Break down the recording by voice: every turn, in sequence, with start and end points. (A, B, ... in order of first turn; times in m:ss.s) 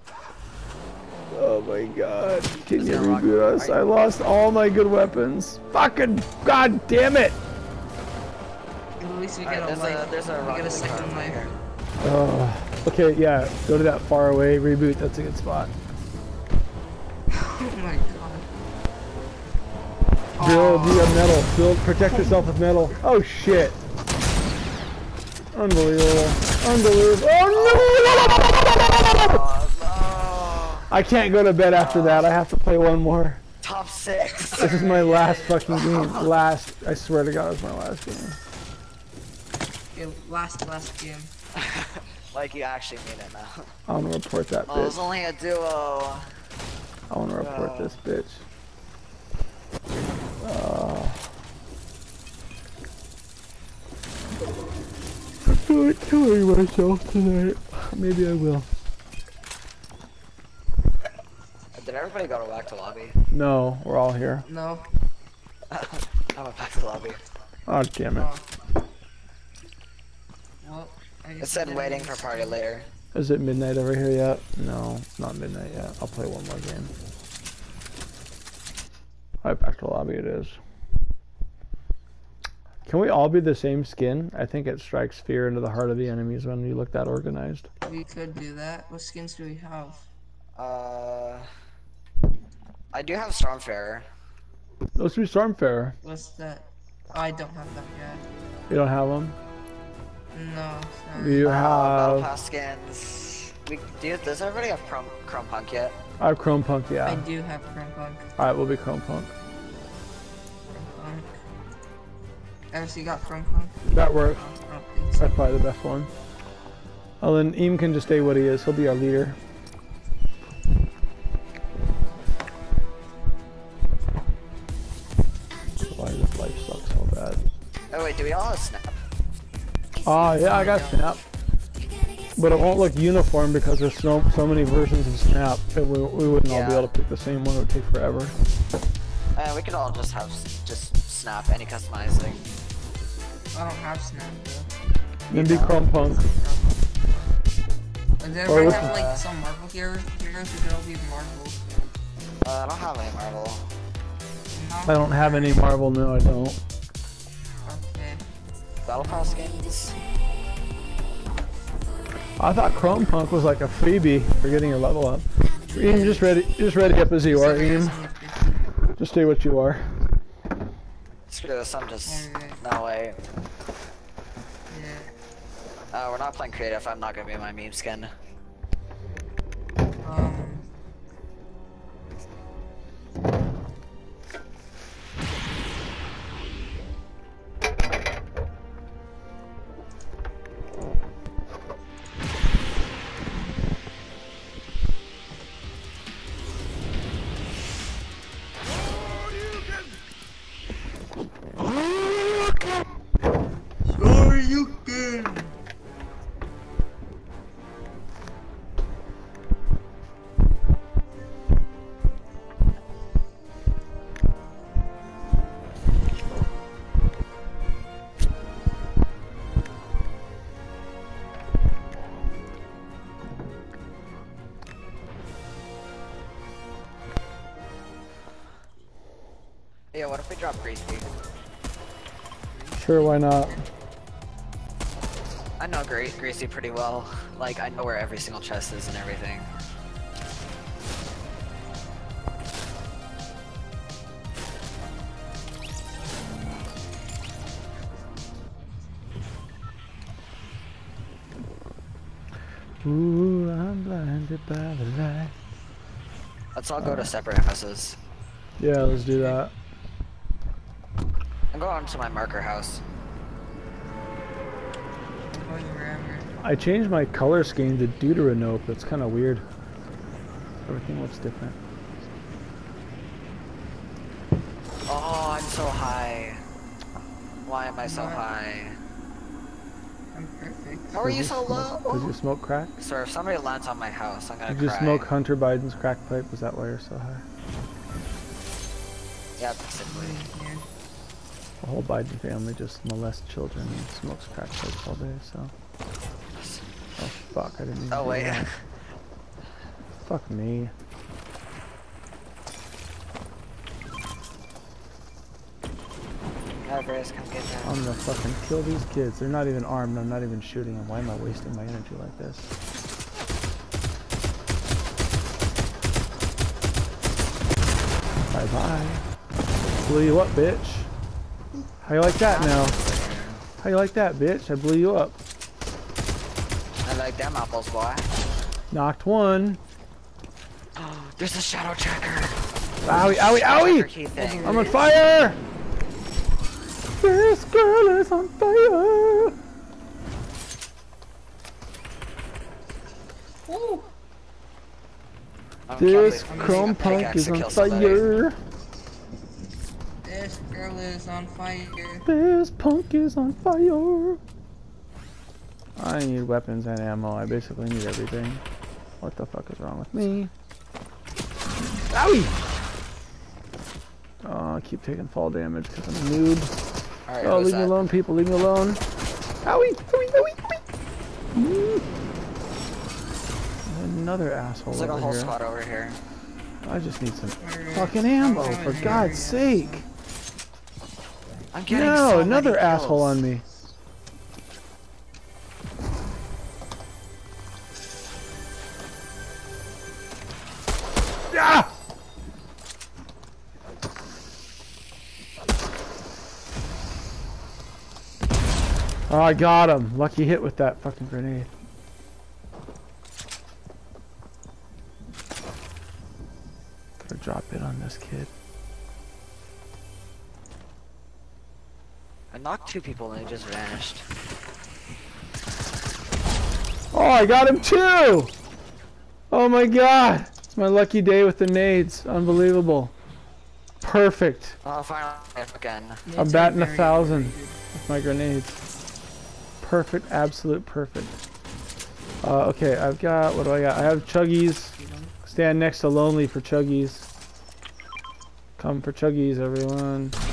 0:01.3-0:07.4 A
0:02.7-0:03.8 B
0:09.0-0:11.5 C
0:09.4-0:11.5 B
0:12.0-0:15.7 A
0:17.3-0:18.5 C
0:20.4-0:21.4 C
0:20.4-0:23.8 A
0:25.5-0:29.4 A
0:27.5-0:30.9 B
0:30.9-0:33.4 A
0:31.7-0:32.3 B
0:33.6-0:34.9 B
0:34.6-0:35.8 C
0:34.6-0:38.4 A
0:35.8-0:36.3 B
0:39.9-0:41.3 C
0:41.5-0:43.7 B
0:43.9-0:45.1 A
0:44.7-0:46.3 B
0:47.1-0:48.4 A
0:47.4-0:48.0 B
0:50.4-0:51.3 A
0:55.4-0:58.7 A
1:01.7-1:03.2 B
1:03.3-1:04.5 A
1:04.4-1:04.9 C
1:05.7-1:07.2 B
1:07.7-1:08.3 A
1:08.2-1:08.5 C
1:10.6-1:12.6 C
1:11.4-1:12.9 B
1:13.1-1:16.9 A
1:19.4-1:20.6 A
1:22.9-1:27.7 A
1:27.8-1:30.1 C
1:30.6-1:31.5 B
1:32.9-1:34.1 B
1:35.0-1:36.0 A
1:36.0-1:38.2 C
1:38.7-1:39.4 A
1:40.3-1:41.5 C
1:41.2-1:42.3 A
1:41.4-1:46.0 B
1:46.2-1:47.3 A
1:47.0-1:48.3 C
1:48.4-1:49.3 A
1:50.7-1:51.4 C
1:52.7-1:55.4 C
1:53.9-1:54.4 A
1:55.2-1:56.1 A
1:57.2-1:59.4 A
2:05.8-2:07.4 A
2:07.9-2:09.0 B
2:10.0-2:11.2 A
2:10.3-2:11.1 C
2:12.4-2:18.4 A
2:16.5-2:16.9 B
2:19.4-2:22.4 B
2:23.5-2:24.7 C
2:25.3-2:25.8 B
2:25.3-2:26.2 A
2:25.5-2:27.3 C
2:28.2-2:31.6 C
2:28.5-2:29.0 A
2:28.5-2:29.2 B
2:32.4-2:33.7 B
2:34.5-2:35.7 C
2:34.9-2:36.6 A
2:37.6-2:38.3 C
2:38.8-2:40.0 B
2:39.0-2:39.4 C
2:42.4-2:48.0 A
2:45.6-2:46.3 C
2:47.3-2:48.7 C
2:49.0-2:50.1 A
2:51.3-2:53.2 B
2:52.0-2:52.6 C
2:54.7-2:55.1 C
2:55.9-2:58.1 B
3:00.0-3:00.7 C
3:23.8-3:25.5 C
3:49.9-3:51.1 B
3:52.5-3:53.7 C
3:52.8-3:53.6 A
3:55.6-3:59.5 B
4:12.8-4:15.3 A
4:16.6-4:18.0 B
4:16.8-4:17.1 A
4:18.6-4:19.5 A
4:19.0-4:19.4 C
4:21.5-4:22.8 B
4:25.3-4:26.3 C
4:26.4-4:29.4 A
4:30.7-4:31.6 A
4:34.9-4:36.4 B
4:37.5-4:38.8 B
4:37.8-4:38.2 C
4:40.1-4:41.0 C
4:40.9-4:42.1 B
4:41.0-4:42.7 A
4:42.8-4:45.1 B
4:44.5-4:47.2 A
4:49.4-4:50.2 B
4:49.8-4:50.7 C
4:51.6-4:55.5 A
4:56.3-4:56.7 B
4:57.0-4:58.5 A
4:57.9-4:58.7 B
5:00.0-5:00.7 A
5:06.6-5:07.8 B
5:07.6-5:12.5 A
5:18.3-5:19.0 A
5:19.8-5:20.9 A
5:21.8-5:22.8 A
5:22.2-5:23.4 B
5:23.6-5:25.2 A
5:26.8-5:28.1 B
5:28.7-5:29.6 A
5:30.8-5:34.7 B
5:32.8-5:35.4 A
5:34.2-5:34.8 C
5:37.0-5:39.4 A
5:43.5-5:43.9 C
5:45.7-5:48.1 B
5:45.8-5:48.4 A
5:46.2-5:47.2 C
5:50.0-5:52.1 C
5:52.1-5:54.2 A
5:55.8-5:58.4 A
5:59.0-6:00.3 A
6:01.9-6:02.4 A
6:04.2-6:06.5 A
6:07.1-6:07.9 B
6:07.2-6:08.8 A
6:09.4-6:10.6 A
6:11.3-6:11.9 A
6:13.7-6:15.3 A
6:14.7-6:16.0 B
6:16.6-6:19.8 A
6:17.4-6:19.8 C
6:21.5-6:23.2 B
6:21.7-6:23.4 A
6:31.3-6:31.7 A
6:39.1-6:41.5 A
6:47.0-6:48.3 A
6:52.3-6:54.0 B
6:56.9-6:58.3 A
6:59.3-7:02.9 A
7:03.8-7:04.6 A
7:04.6-7:06.0 B
7:06.1-7:07.6 C
7:06.2-7:08.6 A
7:09.6-7:11.2 A
7:12.2-7:17.1 A
7:14.7-7:15.2 C
7:18.6-7:20.2 A